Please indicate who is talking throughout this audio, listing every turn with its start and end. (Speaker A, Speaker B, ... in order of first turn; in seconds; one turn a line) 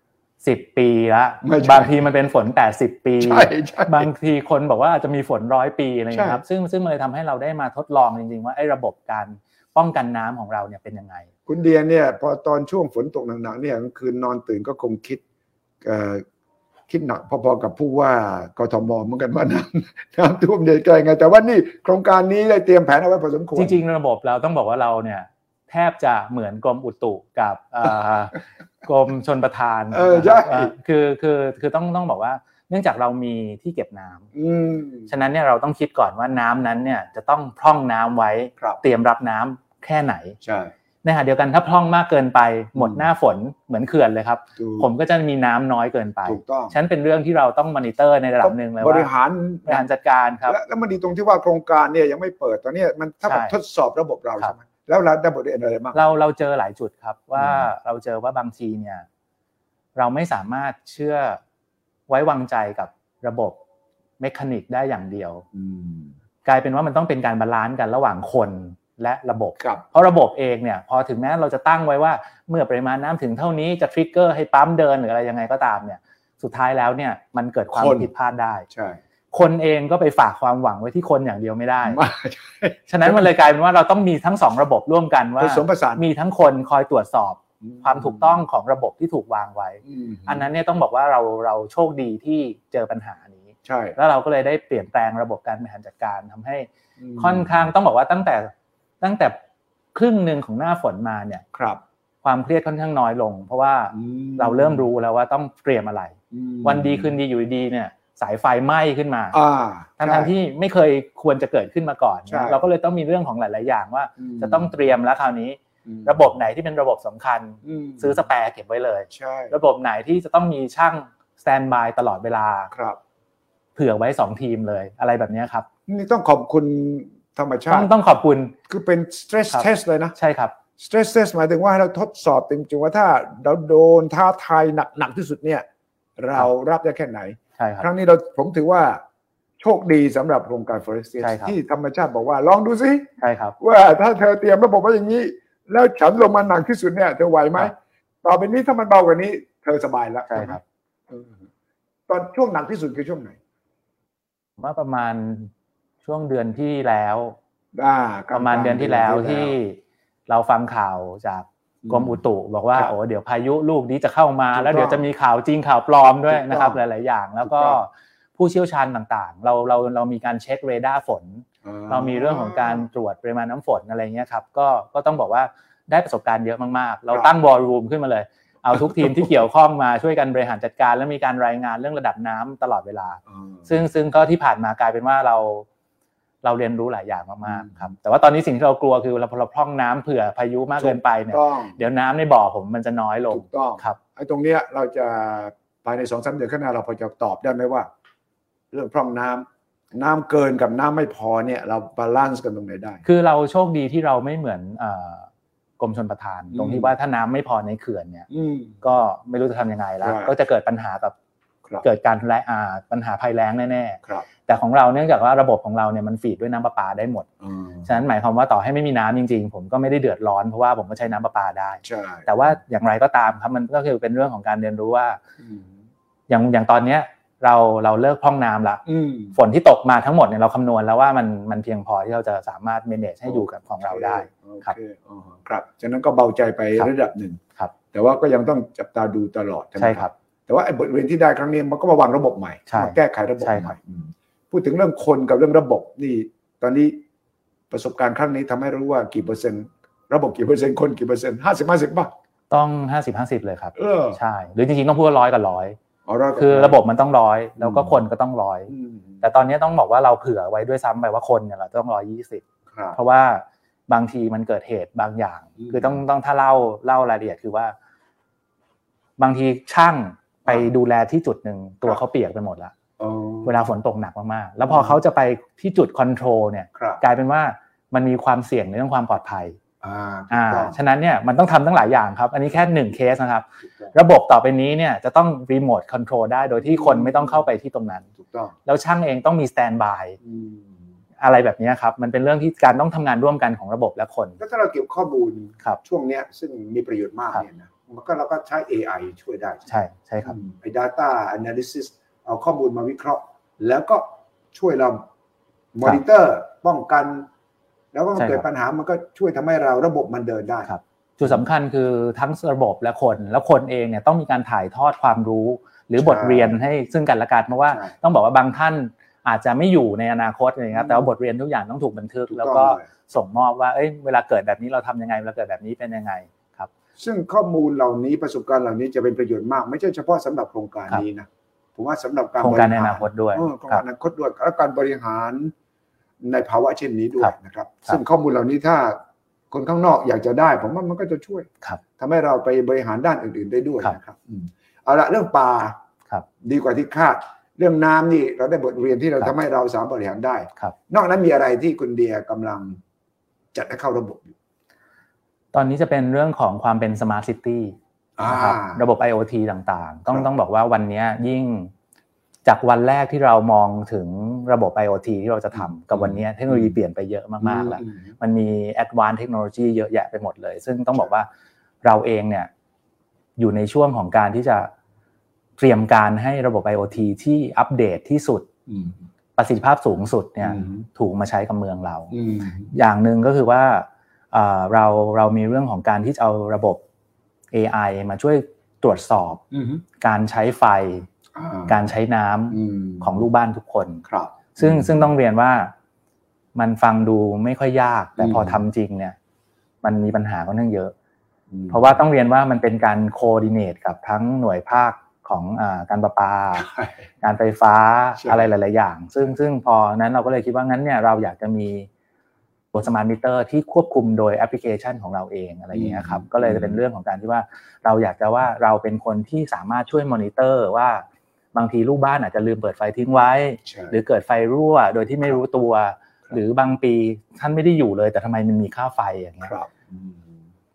Speaker A: 0.4-11.3
Speaker B: 1.4-1.9
Speaker B: 3.2-4.1
Speaker B: 6.1-6.4
Speaker B: 11.5-15.2
Speaker B: 15.8-16.2
Speaker B: 16.9-23.8
Speaker A: 23.6-34.3
Speaker B: 29.9-30.7
Speaker B: 34.3-35.1
Speaker A: 35.1-40.4
Speaker B: 40.4-40.7
Speaker A: 41.0-49.1
Speaker B: 42.8-43.0
Speaker B: 44.6-44.9
Speaker B: 46.2-46.7
Speaker B: 48.4-49.8
Speaker A: 49.6-50.6
Speaker B: 50.5-56.0
Speaker A: 53.3-53.5
Speaker A: 55.9-59.0
Speaker B: 57.4-57.7
Speaker A: 59.9-61.4
Speaker A: 62.1-63.6
Speaker A: 64.2-65.4
Speaker B: 65.5-66.1
Speaker A: 66.4-78.7
Speaker B: 77.7-78.1
Speaker B: 78.7-79.0
Speaker A: 79.3-82.0
Speaker B: 81.8-83.3
Speaker A: 82.9-99.3
Speaker B: 85.4-86.0
Speaker B: 87.6-88.4
Speaker B: 89.8-90.5
Speaker B: 93.6-94.0
Speaker B: 97.0-97.7
Speaker A: 99.9-101.4
Speaker B: 101.5-101.8
Speaker A: 102.2-109.4
Speaker B: 103.9-104.9
Speaker B: 106.3-107.2
Speaker B: 109.3-110.3
Speaker A: 110.0-122.7
Speaker B: 112.3-112.6
Speaker B: 114.2-114.7
Speaker B: 115.8-116.2
Speaker B: 117.6-118.2
Speaker B: 119.1-119.5
Speaker B: 122.7-123.0
Speaker A: 123.8-125.7
Speaker B: 125.9-127.9
Speaker A: 127.7-128.6
Speaker B: 128.7-130.1
Speaker A: 129.5-130.6
Speaker B: 130.8-135.7
Speaker B: 136.2-139.0
Speaker A: 137.6-137.9
Speaker B: 139.6-151.4
Speaker A: 141.2-141.6
Speaker A: 143.2-143.6
Speaker A: 150.3-150.6
Speaker B: 152.1-153.4
Speaker A: 154.6-155.5
Speaker A: 156.0-157.4
Speaker B: 157.7-159.6
Speaker A: 158.3-185.7
Speaker B: 161.8-162.2
Speaker B: 164.5-165.1
Speaker B: 166.3-166.8
Speaker B: 167.4-167.8
Speaker B: 171.6-172.9
Speaker B: 178.7-179.3
Speaker B: 183.3-183.7
Speaker A: 186.4-194.0
Speaker B: 187.4-187.9
Speaker B: 190.8-191.8
Speaker B: 193.3-197.9
Speaker B: 198.7-203.0
Speaker A: 203.1-205.3
Speaker A: 205.8-208.3
Speaker B: 206.5-206.9
Speaker B: 208.3-208.8
Speaker A: 208.8-211.1
Speaker B: 210.0-210.3
Speaker A: 211.8-217.3
Speaker B: 217.4-217.9
Speaker A: 217.8-225.2
Speaker B: 221.8-222.6
Speaker B: 225.4-225.8
Speaker A: 226.3-228.8
Speaker B: 228.8-229.3
Speaker A: 229.3-234.7
Speaker B: 233.3-237.4
Speaker B: 237.9-247.0
Speaker A: 239.8-240.1
Speaker A: 242.7-243.8
Speaker B: 247.7-252.1
Speaker A: 252.5-255.8
Speaker B: 253.7-254.2
Speaker B: 256.1-256.8
Speaker A: 256.3-267.7
Speaker B: 257.6-258.0
Speaker B: 258.7-259.2
Speaker B: 262.7-263.0
Speaker B: 265.6-266.0
Speaker A: 269.2-272.7
Speaker B: 273.0-273.7
Speaker A: 273.4-279.6
Speaker B: 274.7-275.0
Speaker B: 276.7-277.0
Speaker B: 279.8-280.8
Speaker A: 280.3-288.1
Speaker B: 283.6-283.9
Speaker B: 286.6-287.5
Speaker B: 288.2-288.6
Speaker A: 288.7-290.2
Speaker B: 290.2-290.8
Speaker A: 291.2-294.4
Speaker B: 294.4-299.7
Speaker A: 299.7-300.4
Speaker B: 300.2-305.1
Speaker B: 305.7-307.3
Speaker B: 307.9-310.7
Speaker A: 308.2-308.4
Speaker A: 310.7-326.7
Speaker B: 316.0-316.6
Speaker B: 320.7-321.1
Speaker B: 322.3-322.9
Speaker B: 327.0-335.5
Speaker A: 332.4-333.8
Speaker B: 336.2-339.0
Speaker B: 339.5-345.8
Speaker B: 346.4-352.8
Speaker B: 353.5-354.3
Speaker A: 355.5-361.7
Speaker B: 358.2-358.8
Speaker A: 362.4-371.3
Speaker B: 365.5-366.8
Speaker B: 367.4-368.1
Speaker A: 371.8-372.5
Speaker A: 373.4-374.7
Speaker A: 375.6-378.5
Speaker B: 378.7-379.0
Speaker A: 379.4-382.1
Speaker B: 380.4-380.8
Speaker B: 382.1-382.7
Speaker A: 382.7-386.8
Speaker A: 387.5-389.4
Speaker B: 389.5-389.8
Speaker A: 390.0-391.1
Speaker B: 391.3-391.8
Speaker A: 391.7-395.7
Speaker B: 392.5-393.2
Speaker B: 394.1-395.1
Speaker A: 396.6-399.1
Speaker B: 398.2-398.6
Speaker A: 399.8-400.9
Speaker B: 401.5-401.9
Speaker A: 401.7-406.7
Speaker B: 406.6-406.9
Speaker A: 407.2-411.9
Speaker B: 408.2-408.5
Speaker A: 412.7-429.5
Speaker B: 415.7-416.8
Speaker B: 423.6-424.0
Speaker B: 429.4-430.3